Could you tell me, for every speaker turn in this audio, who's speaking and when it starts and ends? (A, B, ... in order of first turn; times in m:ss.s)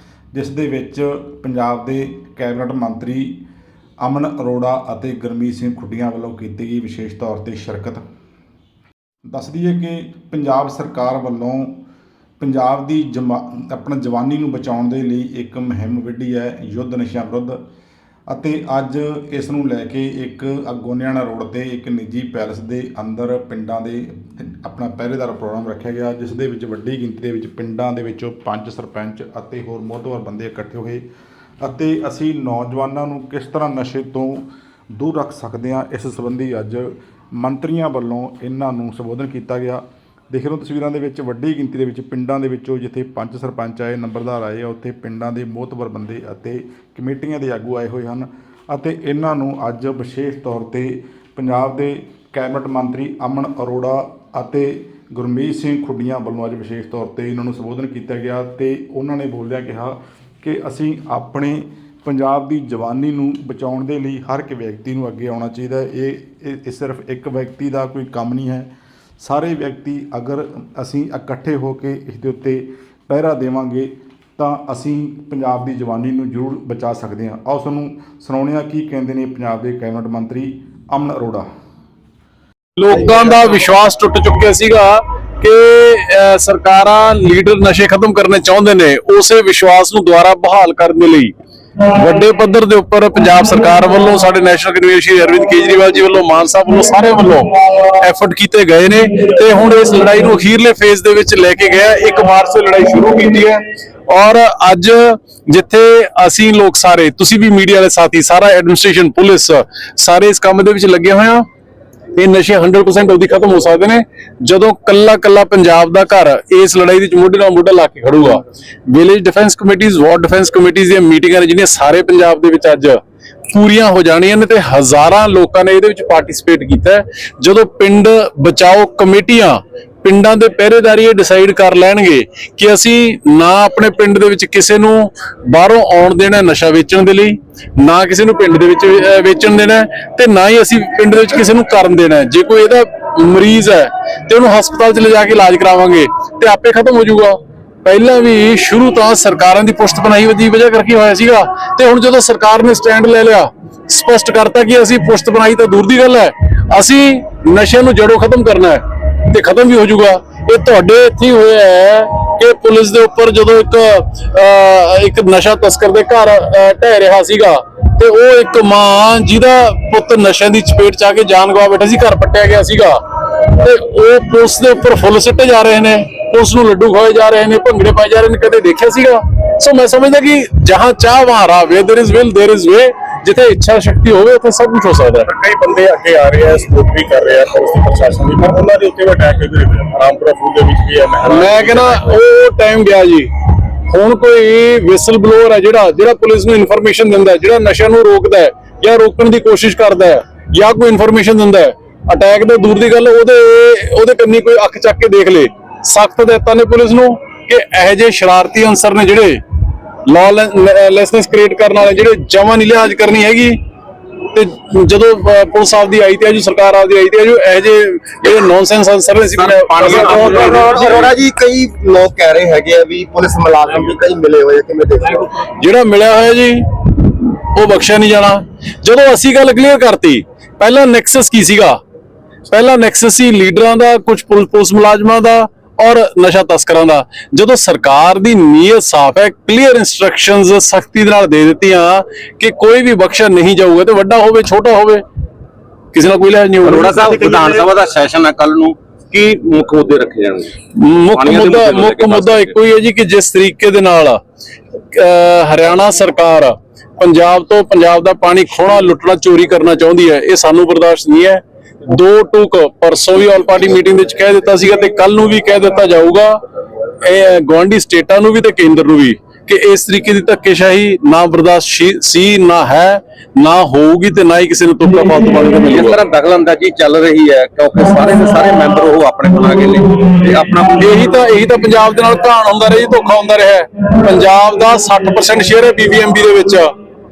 0:00.3-0:03.4 A
0:04.0-0:08.0 A
0:09.3-0:11.8 A
0:12.4-0:17.6 A
0:18.3-0:31.0 A
0:31.6-0:34.4 A
0:35.0-1:08.7 A
1:09.2-1:21.5 A
1:22.8-1:51.4 B
1:52.1-3:05.4 B
3:05.3-3:12.2 C
3:11.2-3:29.4 B
3:30.1-3:33.6 B
3:34.3-3:40.9 B
3:39.4-3:41.1 D
3:39.8-3:45.4 E
3:45.4-3:51.8 B
3:52.5-4:05.0 B
4:05.9-4:07.2 B
4:06.6-4:10.6 D
4:10.7-4:14.2 B
4:11.1-4:12.6 D
4:14.9-4:26.4 B
4:27.0-4:36.0 B
4:35.6-4:40.9 D
4:40.8-4:46.7 B